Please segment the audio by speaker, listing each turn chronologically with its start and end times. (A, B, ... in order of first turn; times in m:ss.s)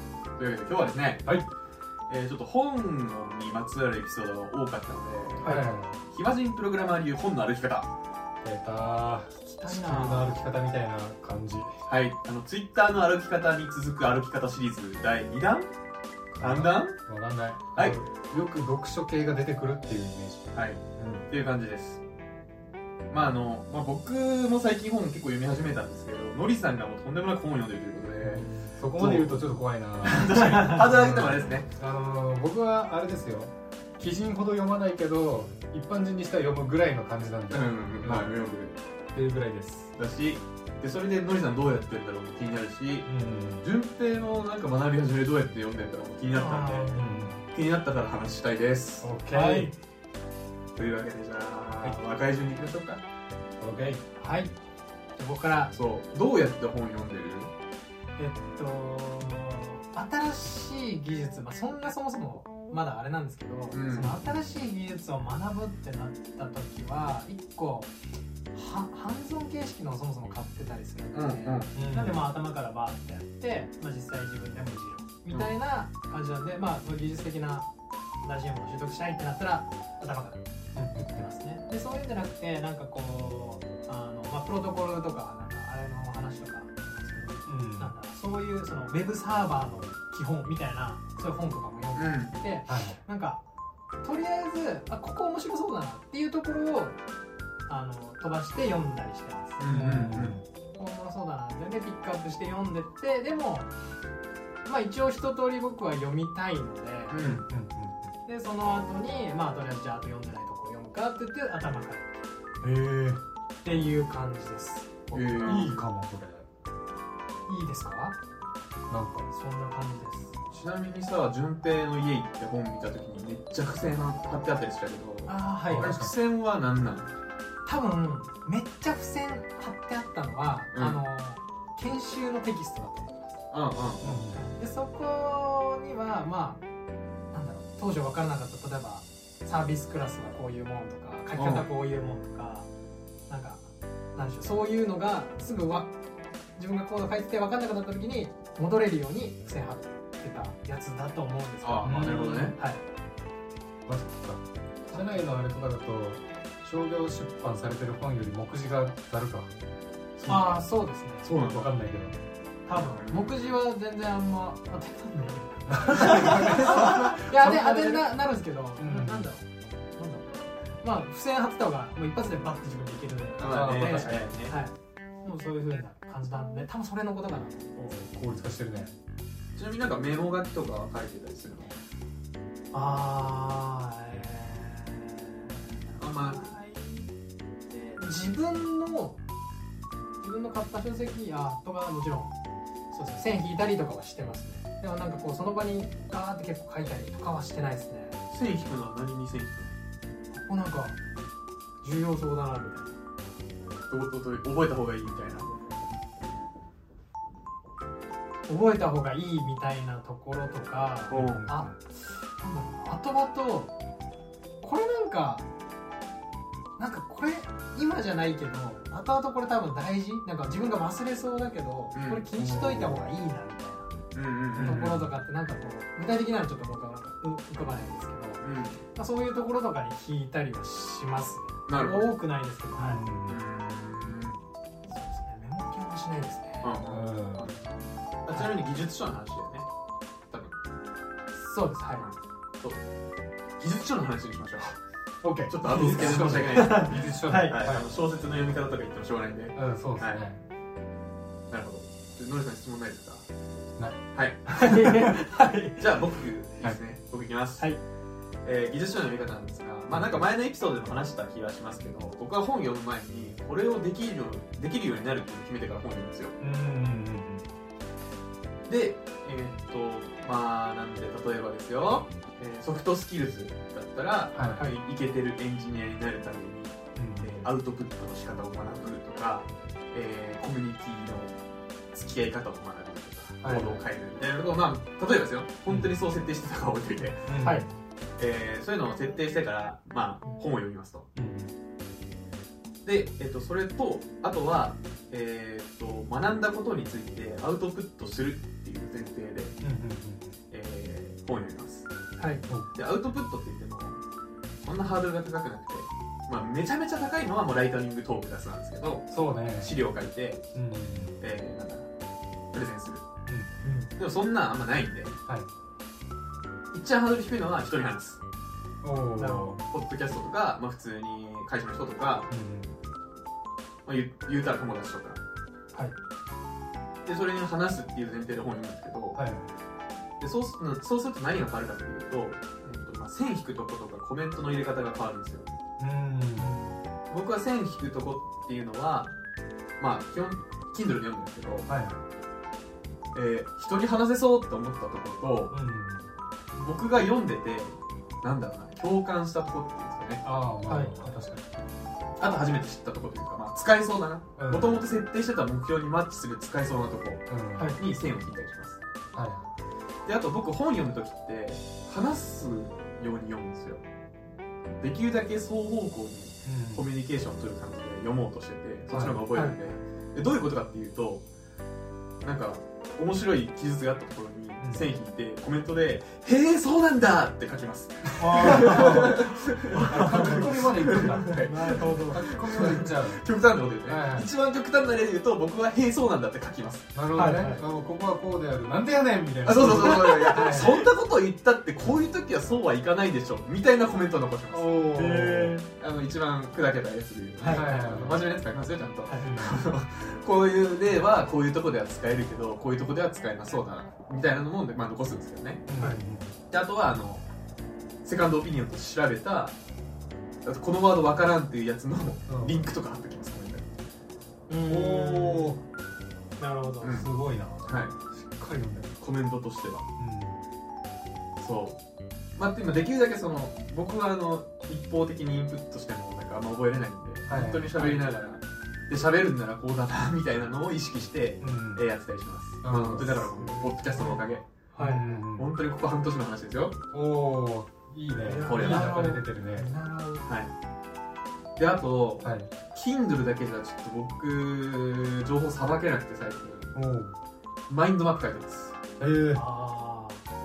0:00.4-0:01.3 A
0:02.1-0:07.9 A
0:05.4-0:06.0 B
0:08.4-0:11.8 B
0:09.6-0:10.1 C
0:09.7-0:10.3 A
0:11.9-0:15.7 A
0:16.3-0:21.3 B
0:16.4-0:17.0 A
0:20.5-0:22.0 A
0:23.1-0:29.5 A
0:28.2-0:38.3 B
0:30.0-0:31.7 A
0:37.5-0:38.8 A
0:39.1-0:39.9 B
0:39.9-0:43.1 A
0:43.1-0:43.7 B
0:43.6-0:47.0 A
0:46.3-0:47.4 C
0:46.9-0:47.4 B
0:47.5-0:49.1 A
0:49.0-0:49.7 B
0:49.3-0:49.7 C
0:50.8-0:53.0 A
0:53.6-0:54.0 B
0:54.2-0:54.5 C
0:55.2-0:55.7 C
0:55.7-0:57.5 A
0:58.2-1:07.9 C
1:03.7-1:04.2 A
1:08.5-1:17.7 C
1:11.1-1:11.7 A
1:11.7-1:12.3 B
1:18.2-1:33.4 C
1:20.8-1:21.2 B
1:27.4-1:27.9 B
1:31.9-1:32.3 A
1:32.7-1:33.0 B
1:34.0-1:37.0 C
1:37.7-1:39.6 C
1:39.6-1:40.4 A
1:39.6-1:40.4 B
1:40.8-1:43.7 C
1:44.7-1:47.2 C
1:47.1-1:47.4 A
1:47.2-1:48.1 B
1:48.2-1:52.2 C
1:52.6-1:53.2 B
1:53.6-1:55.7 C
1:55.1-1:55.8 A
1:55.1-1:56.5 B
1:57.5-1:58.2 C
1:58.9-1:59.3 B
1:59.3-2:00.3 C
2:00.5-2:07.1 A
2:05.2-2:05.9 C
2:05.6-2:06.1 B
2:07.6-2:13.4 C
2:10.7-2:11.0 A
2:13.5-2:14.2 A
2:14.0-2:14.5 B
2:14.3-2:16.6 C
2:17.3-2:22.7 C
2:21.3-2:21.7 A
2:23.3-2:25.9 C
2:26.6-2:32.8 C
2:31.6-2:32.6 A
2:31.8-2:32.5 B
2:33.8-2:39.5 B
2:34.9-2:35.2 C
2:40.2-2:40.6 A
2:40.3-2:41.2 C
2:41.2-2:41.7 A
2:41.4-2:42.2 B
2:42.7-2:57.8 C
2:42.7-2:43.5 A
2:45.7-2:48.1 B
2:48.8-2:49.3 B
2:53.4-2:54.6 A
2:53.4-2:54.3 B
2:57.8-2:59.0 B
2:59.6-3:01.8 A
3:02.7-3:07.1 C
3:06.0-3:06.5 A
3:07.7-3:09.2 C
3:10.2-3:12.3 C
3:12.9-3:18.2 C
3:18.3-3:19.7 A
3:20.3-3:21.0 C
3:21.8-3:23.0 C
3:23.9-3:25.7 A
3:28.4-3:33.7 C
3:31.1-3:31.8 B
3:31.1-3:31.5 A
3:34.6-3:35.5 C
3:36.8-3:43.9 C
3:41.9-3:42.3 A
3:42.3-3:43.1 B
3:44.1-3:44.8 A
3:44.5-3:45.1 B
3:44.6-3:53.0 C
3:48.4-3:48.8 A
3:51.7-3:52.1 A
3:52.8-3:53.4 B
3:53.2-3:54.4 A
3:54.9-3:56.8 C
3:56.6-3:59.7 A
3:56.9-3:57.5 B
4:01.3-4:02.1 C
4:01.9-4:02.8 A
4:03.6-4:04.8 A
4:05.2-4:07.9 B
4:05.5-4:10.2 A
4:05.6-4:07.7 C
4:09.6-4:10.4 B
4:11.5-4:13.2 A
4:14.1-4:14.6 A
4:14.5-4:16.1 C
4:14.7-4:15.1 B
4:15.8-4:17.7 A
4:18.4-4:26.3 A
4:19.9-4:20.2 B
4:26.4-4:27.5 B
4:28.7-4:41.4 A
4:34.3-4:34.7 B
4:37.0-4:37.5 B
4:41.9-4:47.4 A
4:43.4-4:43.7 B
4:45.7-4:45.9 B
4:47.2-4:47.7 B
4:47.4-4:47.7 C
4:48.2-4:51.0 A
4:51.2-4:51.5 B
4:52.8-4:59.6 A
4:59.6-5:00.4 B
5:00.5-5:01.9 A
5:02.2-5:02.4 C
5:02.5-5:02.7 B
5:02.7-5:04.0 A
5:04.6-5:10.4 A
5:09.1-5:09.8 B
5:10.6-5:11.2 B
5:11.2-5:11.9 A
5:12.5-5:13.0 A
5:13.3-5:13.5 B
5:13.6-5:13.9 C
5:14.0-5:15.1 A
5:16.7-5:18.2 A
5:18.8-5:19.6 B
5:19.2-5:19.6 C
5:19.7-5:22.3 A
5:22.3-5:22.7 B
5:23.9-5:25.2 A
5:27.0-5:29.2 A
5:29.1-5:29.5 B
5:30.2-5:35.5 A
5:35.8-5:36.5 B
5:36.4-5:36.8 C
5:37.1-5:39.1 A
5:39.8-5:41.7 A
5:41.7-5:42.0 B
5:43.1-5:45.5 A
5:45.5-5:46.1 B
5:46.5-5:50.2 A
5:50.2-5:51.7 B
5:50.7-5:51.1 C
5:52.2-5:58.8 A
5:54.4-5:54.9 B
5:57.3-5:57.8 B
5:59.1-5:59.5 B
6:00.1-6:03.8 A
6:04.8-6:11.2 A
6:06.4-6:06.9 B
6:08.9-6:09.3 B
6:09.3-6:09.8 C
6:12.2-6:26.9 A
6:14.6-6:14.9 B
6:18.2-6:22.3 C
6:18.3-6:19.3 B
6:19.9-6:23.3 B
6:23.8-6:24.3 B
6:26.9-6:30.9 B
6:27.1-6:27.6 C
6:29.4-6:45.7 A
6:34.5-6:35.6 B
6:34.9-6:35.7 C
6:37.4-6:37.7 C
6:37.5-6:38.2 B
6:39.1-6:39.3 C
6:39.2-6:39.6 B
6:45.7-6:46.3 B
6:46.5-6:47.2 A
6:48.0-6:49.6 A
6:50.4-6:53.7 A
6:52.3-6:52.7 B
6:54.5-6:55.6 C
6:54.7-6:55.6 B
6:56.4-6:57.0 C
6:56.8-6:57.1 A
6:56.9-6:59.0 B
6:57.7-6:57.9 A
6:59.0-6:59.9 A
7:00.0-7:00.4 B
7:01.4-7:01.8 A
7:02.4-7:14.4 A
7:07.3-7:08.1 B
7:11.4-7:11.8 B
7:12.6-7:13.4 B
7:13.4-7:15.1 C
7:14.8-7:15.5 B
7:15.2-7:16.8 A
7:16.9-7:19.8 B
7:18.2-7:20.2 C
7:18.4-7:19.1 A
7:20.2-7:20.5 A
7:21.6-7:26.7 A
7:22.2-7:22.5 B
7:26.7-7:27.2 B
7:27.7-7:28.8 A
7:29.0-7:29.4 B
7:29.3-7:30.2 C